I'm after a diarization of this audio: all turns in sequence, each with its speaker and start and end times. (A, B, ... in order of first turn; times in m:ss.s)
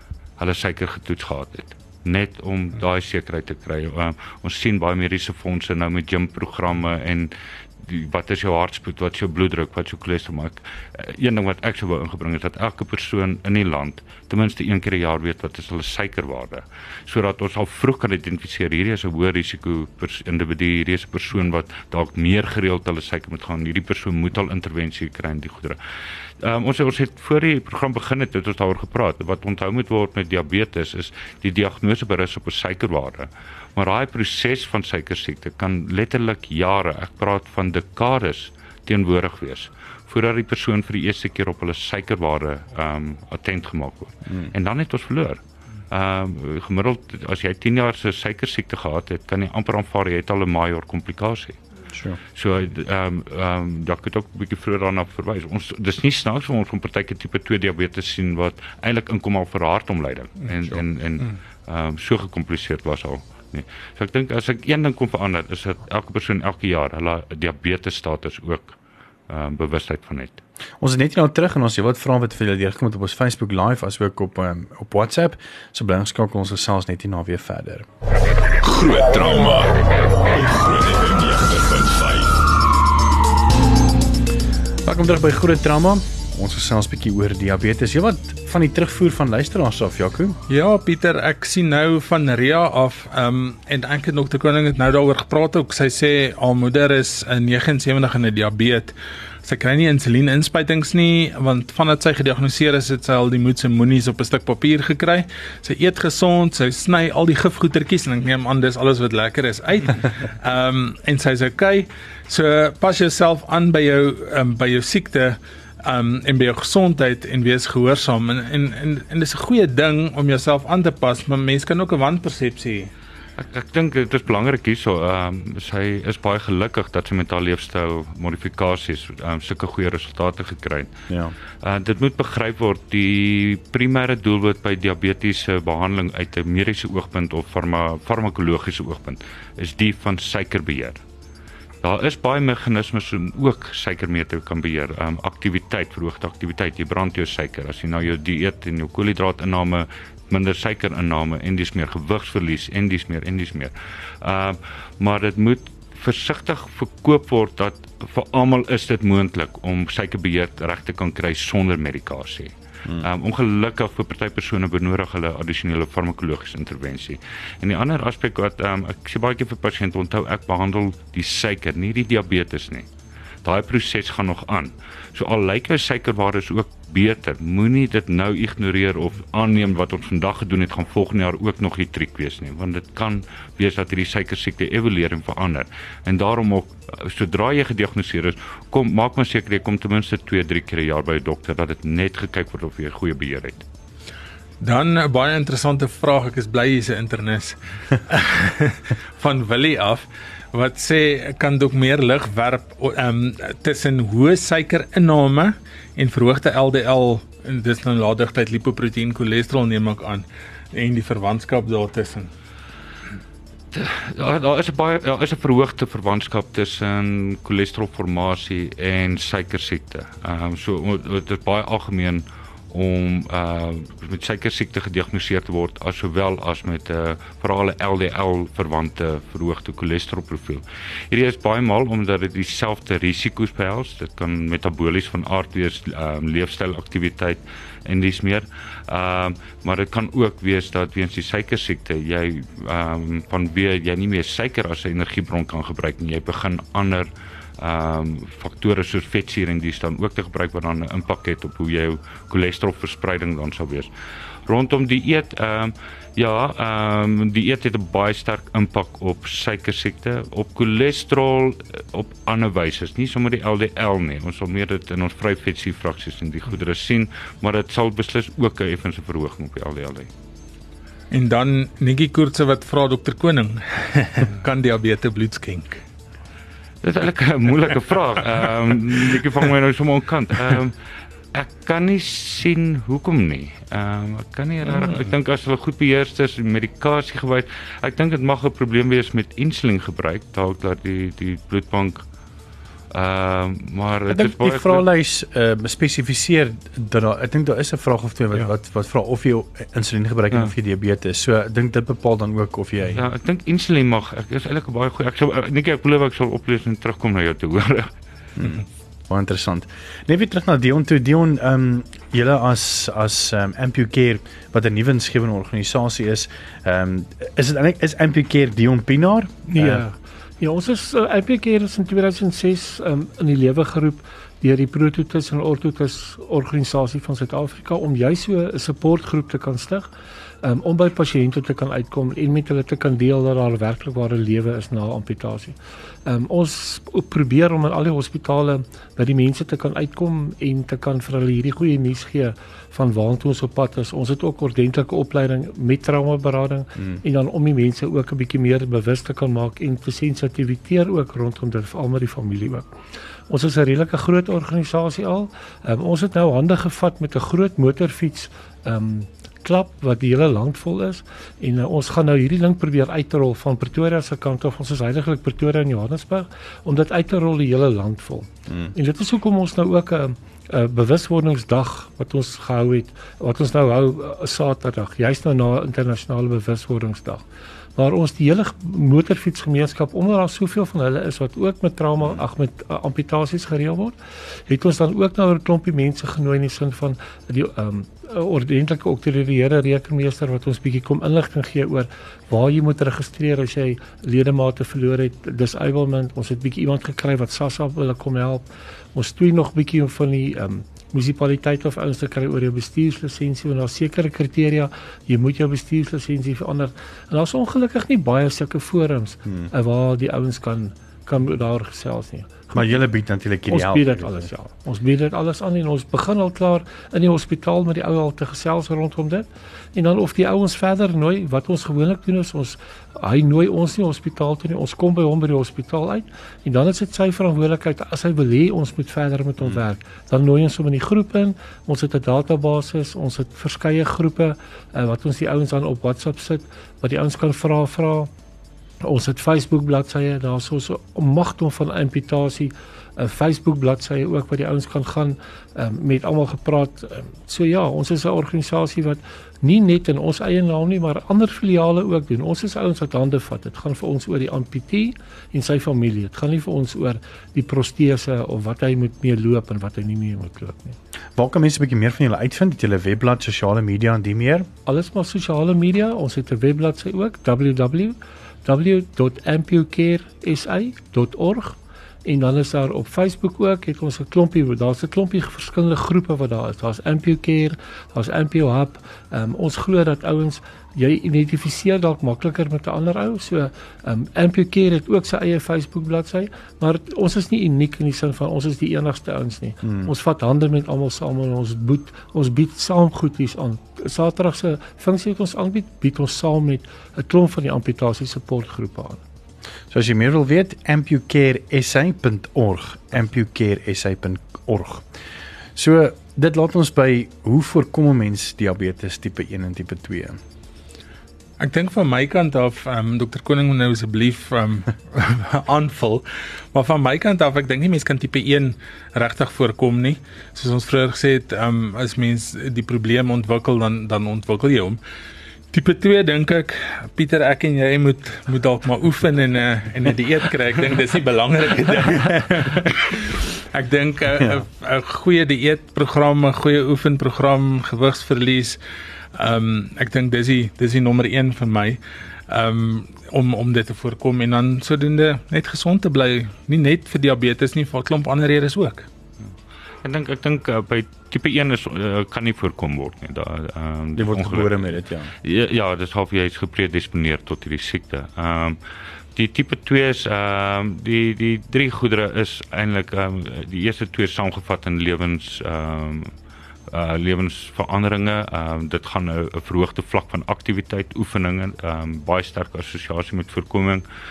0:00.4-0:25.8 A
0:26.4-0:51.6 A
0:51.9-0:52.2 B
0:52.4-1:08.8 A
1:09.3-1:10.4 A
1:10.8-1:17.9 B
1:18.6-1:22.4 C
1:24.8-1:30.4 B
1:30.5-1:38.9 D
1:39.4-2:02.9 D
2:03.4-2:10.9 A
2:11.1-2:11.4 B
2:11.6-2:21.0 A
2:21.8-2:52.9 A
2:53.4-3:13.6 A
3:14.6-3:32.3 D
3:33.7-4:13.9 A
4:14.5-4:30.1 A
4:31.1-4:35.8 D
4:36.8-4:40.8 A
4:41.3-4:52.0 A
4:52.9-4:54.8 A
4:54.1-5:03.0 B
5:02.9-5:07.9 A
5:08.4-5:19.8 B
5:19.5-5:29.9 E
5:30.4-5:52.7 E
5:53.3-6:17.2 E
6:17.8-6:24.0 E
6:24.5-6:38.4 E
6:39.0-6:52.8 E
6:52.6-6:54.3 B
6:53.5-7:18.1 E
7:18.8-7:40.8 E
7:41.2-7:44.5 B
7:44.7-8:19.0 E
8:09.6-8:09.9 B
8:19.7-8:24.9 B
8:25.6-8:30.2 B
8:31.4-8:44.8 D
8:45.5-8:58.6 D
8:59.1-9:08.9 D
9:09.8-9:18.6 A
9:14.0-9:15.1 B
9:19.2-9:26.1 A
9:26.7-9:33.8 A